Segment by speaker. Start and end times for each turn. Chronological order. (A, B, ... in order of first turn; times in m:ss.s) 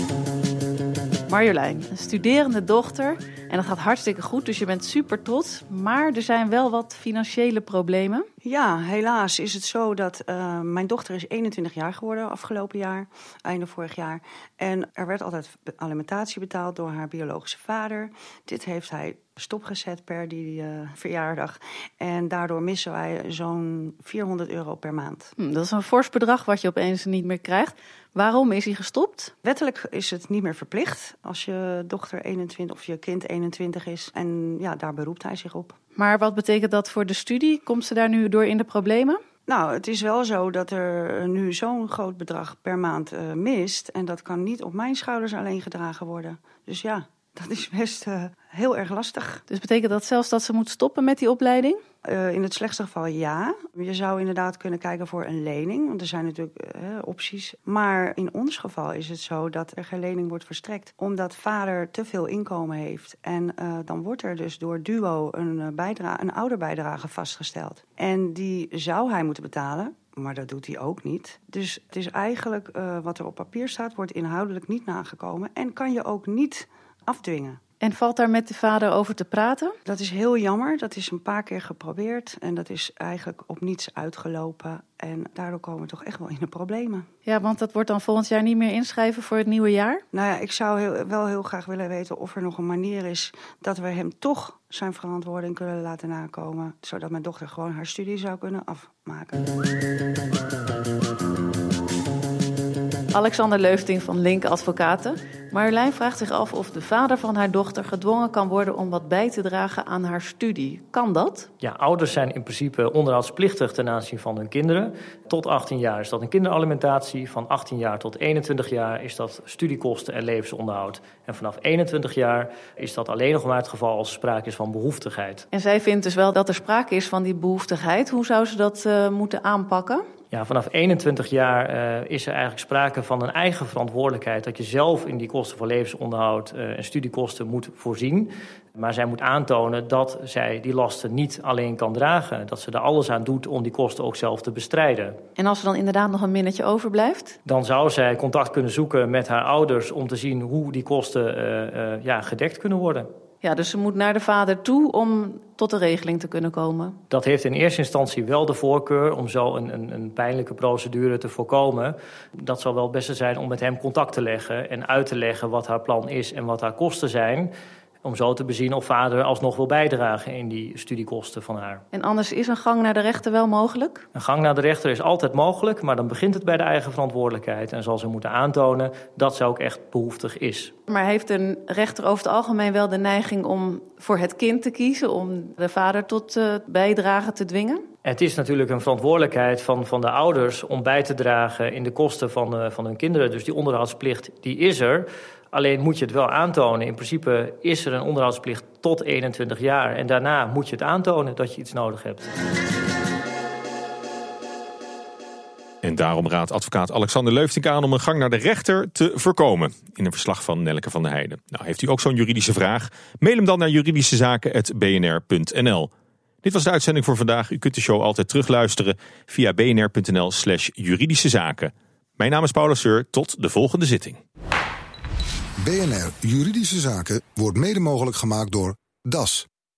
0:01.3-0:08.3 A
0:08.4-0:25.3 B
0:25.4-0:29.3 A
0:29.4-0:35.8 B
0:36.0-0:39.2 A
0:39.5-0:49.4 B
0:49.5-0:51.8 A
0:52.1-1:17.6 B
1:17.8-1:19.8 A
1:19.9-1:27.1 B
1:27.3-1:30.0 A
1:30.1-1:39.4 B
1:43.1-1:51.5 A
1:51.6-2:05.5 C
2:05.5-2:10.1 A
2:10.3-2:25.2 C
2:25.4-2:27.4 A
2:27.5-2:33.1 C
2:33.4-2:37.0 A
2:37.1-2:47.5 C
2:48.0-2:51.8 C
2:51.9-2:54.1 A
2:54.2-3:00.8 C
3:00.9-3:07.9 A
3:08.0-3:22.3 C
3:25.8-3:35.9 D
3:36.4-3:44.2 D
3:45.6-3:49.5 E